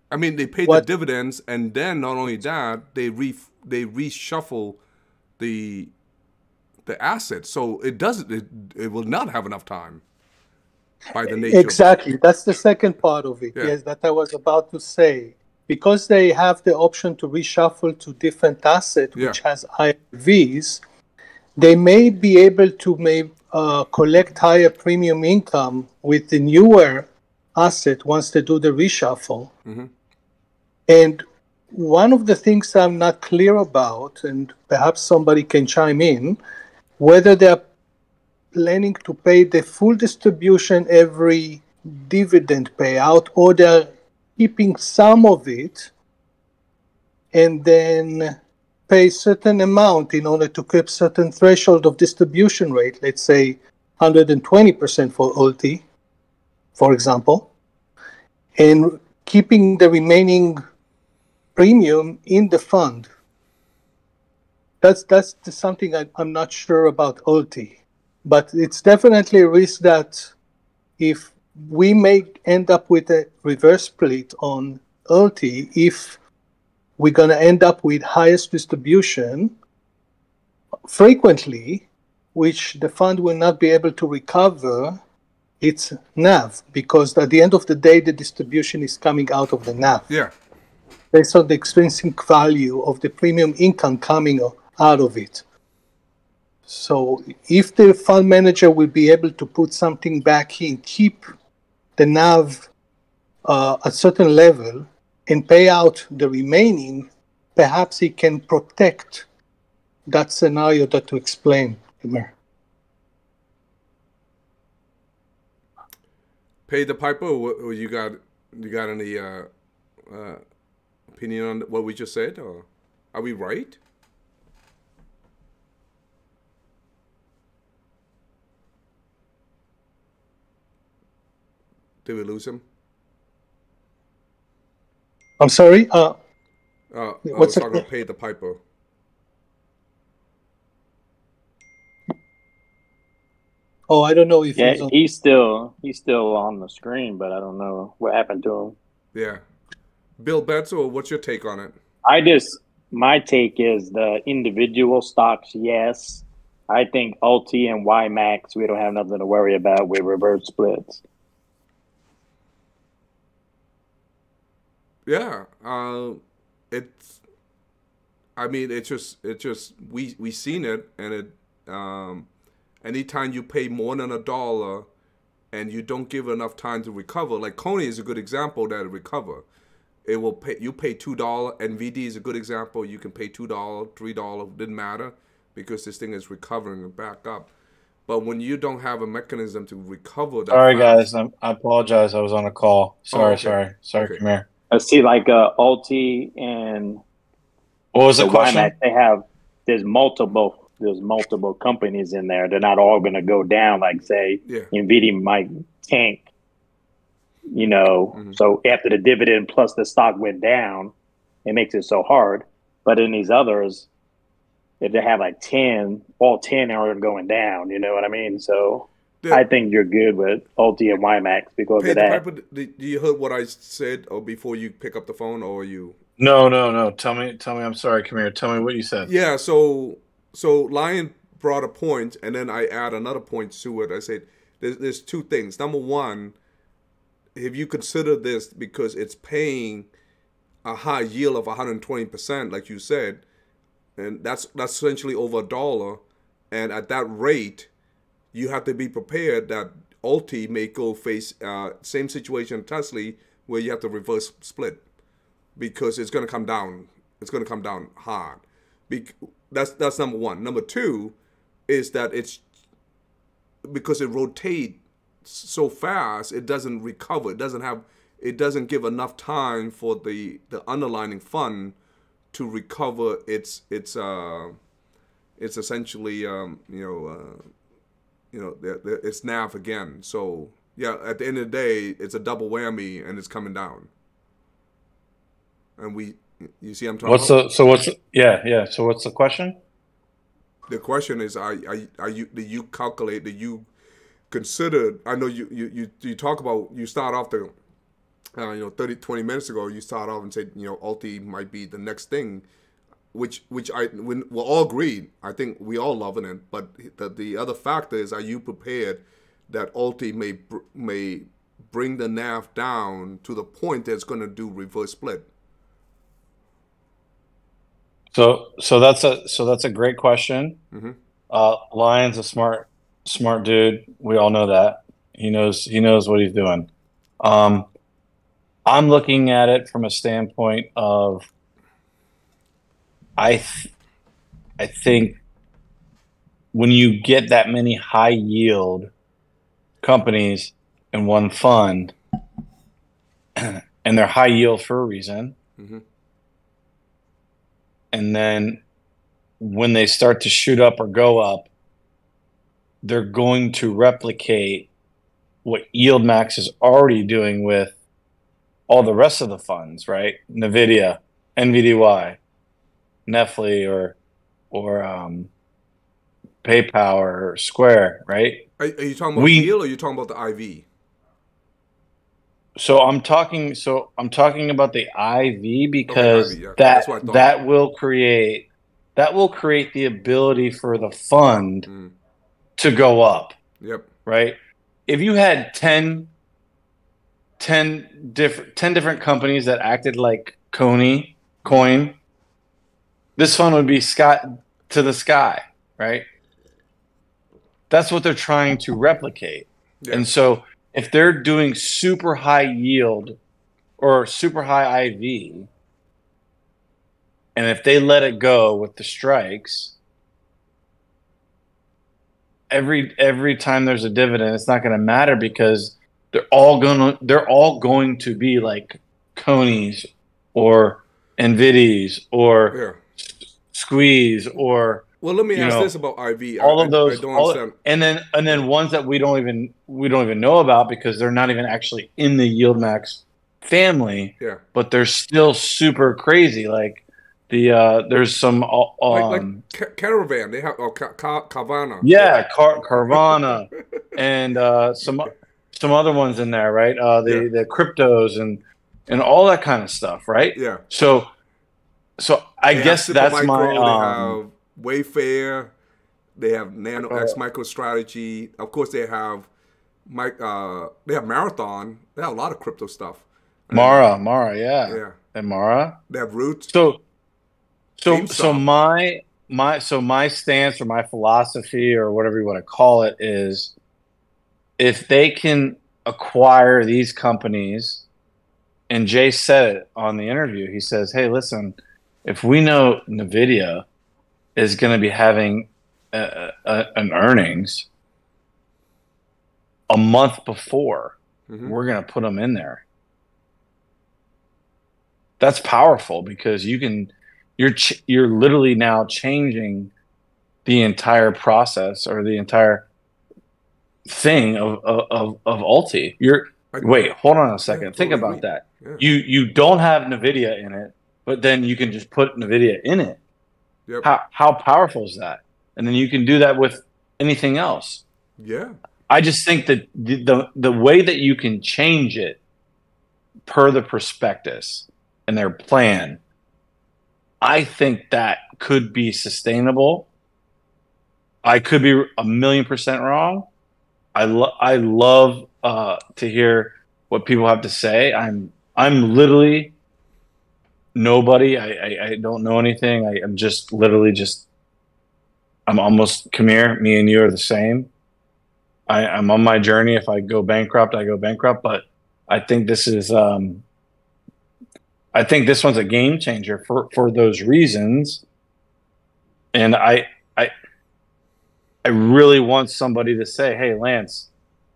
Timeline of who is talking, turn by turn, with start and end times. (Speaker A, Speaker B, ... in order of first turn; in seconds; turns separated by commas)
Speaker A: 0.1-4.8, Speaker A: 5.4-5.9, Speaker A: 6.9-10.0, Speaker A: 11.1-11.8, Speaker B: 11.3-20.8, Speaker B: 21.6-29.5, Speaker B: 30.9-36.4, Speaker B: 37.0-37.7, Speaker B: 38.5-45.9, Speaker B: 47.3-48.4, Speaker B: 48.9-55.8, Speaker B: 56.8-57.5, Speaker B: 58.6-60.6, Speaker B: 61.6-63.1, Speaker B: 64.8-70.3, Speaker B: 71.0-76.2, Speaker B: 77.0-79.5, Speaker B: 80.9-85.0, Speaker B: 85.6-90.1, Speaker B: 91.1-95.4, Speaker B: 96.7-101.2, Speaker B: 102.0-102.7, Speaker B: 103.5-109.3, Speaker B: 110.1-112.3, Speaker A: 116.7-119.5, Speaker A: 120.1-120.4, Speaker A: 121.1-123.8, Speaker A: 132.1-132.6, Speaker B: 135.4-136.2, Speaker A: 136.9-138.6, Speaker B: 137.3-137.8, Speaker B: 143.9-144.9, Speaker C: 144.6-148.8, Speaker A: 149.2-149.4, Speaker A: 150.2-151.8, Speaker C: 152.1-161.0, Speaker A: 165.1-166.2, Speaker A: 166.7-167.2, Speaker A: 168.4-172.3, Speaker A: 172.8-174.9, Speaker A: 175.5-179.4, Speaker A: 180.1-187.5, Speaker A: 188.1-191.1, Speaker D: 190.5-194.4, Speaker A: 193.1-194.2, Speaker C: 194.7-197.0, Speaker D: 197.9-198.7, Speaker C: 198.2-206.3, Speaker C: 207.5-210.9, Speaker C: 211.4-213.9, Speaker C: 214.8-222.2, Speaker A: 221.8-226.0, Speaker D: 226.2-229.1, Speaker A: 229.1-236.3, Speaker A: 237.3-239.9, Speaker A: 240.7-243.2, Speaker A: 244.0-247.7, Speaker A: 248.3-254.8, Speaker A: 255.6-261.2, Speaker A: 261.7-262.4, Speaker A: 263.6-271.8, Speaker A: 272.3-274.6, Speaker A: 275.4-277.4, Speaker A: 278.3-283.9, Speaker A: 285.8-287.4, Speaker D: 287.0-289.6, Speaker A: 290.7-293.7, Speaker A: 294.3-297.5, Speaker A: 298.4-302.4, Speaker A: 303.1-315.3, Speaker D: 318.1-320.6, Speaker D: 321.3-326.7, Speaker D: 327.2-327.7, Speaker D: 328.7-331.3, Speaker D: 333.2-333.7, Speaker D: 334.6-335.2, Speaker D: 336.5-338.9, Speaker D: 339.8-341.9, Speaker D: 343.4-345.4, Speaker D: 347.9-348.6, Speaker D: 349.4-351.5, Speaker D: 352.8-354.7, Speaker D: 355.4-357.8, Speaker D: 358.7-362.2, Speaker D: 363.1-364.0, Speaker D: 364.5-365.3, Speaker D: 366.4-368.5, Speaker A: 368.6-370.6, Speaker D: 369.2-369.5, Speaker D: 372.6-381.7, Speaker A: 375.9-377.3, Speaker A: 381.7-381.9, Speaker D: 382.6-383.4, Speaker A: 383.6-383.9, Speaker D: 384.1-386.1, Speaker D: 387.4-392.0, Speaker A: 391.4-391.7, Speaker D: 393.2-396.1, Speaker D: 397.7-403.2, Speaker A: 399.8-400.1, Speaker D: 403.8-405.5, Speaker D: 407.4-409.8, Speaker D: 412.5-425.7, Speaker A: 422.5-422.8, Speaker A: 425.0-427.6, Speaker D: 426.4-439.4, Speaker A: 438.9-442.2, Speaker D: 441.8-451.1, Speaker A: 442.9-443.1, Speaker A: 450.4-450.6, Speaker D: 452.0-454.2, Speaker A: 452.5-455.5, Speaker A: 456.2-459.3, Speaker D: 456.8-457.2, Speaker A: 459.9-463.9, Speaker D: 463.5-465.8, Speaker A: 464.6-465.0, Speaker A: 465.9-466.5, Speaker D: 466.5-466.8, Speaker D: 467.8-473.5, Speaker A: 467.9-468.5, Speaker D: 474.6-477.8, Speaker D: 478.7-483.6, Speaker D: 484.4-487.7, Speaker D: 489.7-492.6, Speaker A: 491.3-491.6, Speaker D: 495.2-499.7, Speaker D: 500.4-502.7, Speaker D: 503.9-513.0, Speaker A: 506.5-506.8, Speaker A: 507.5-508.9, Speaker D: 513.8-517.8, Speaker A: 518.2-518.5, Speaker D: 518.9-522.2, Speaker D: 523.3-526.0, Speaker D: 527.2-529.9, Speaker D: 531.2-533.3, Speaker D: 534.0-539.5, Speaker D: 540.8-544.3, Speaker D: 545.5-547.7, Speaker D: 548.7-553.4, Speaker D: 554.9-558.0, Speaker D: 559.3-560.3, Speaker D: 561.6-564.1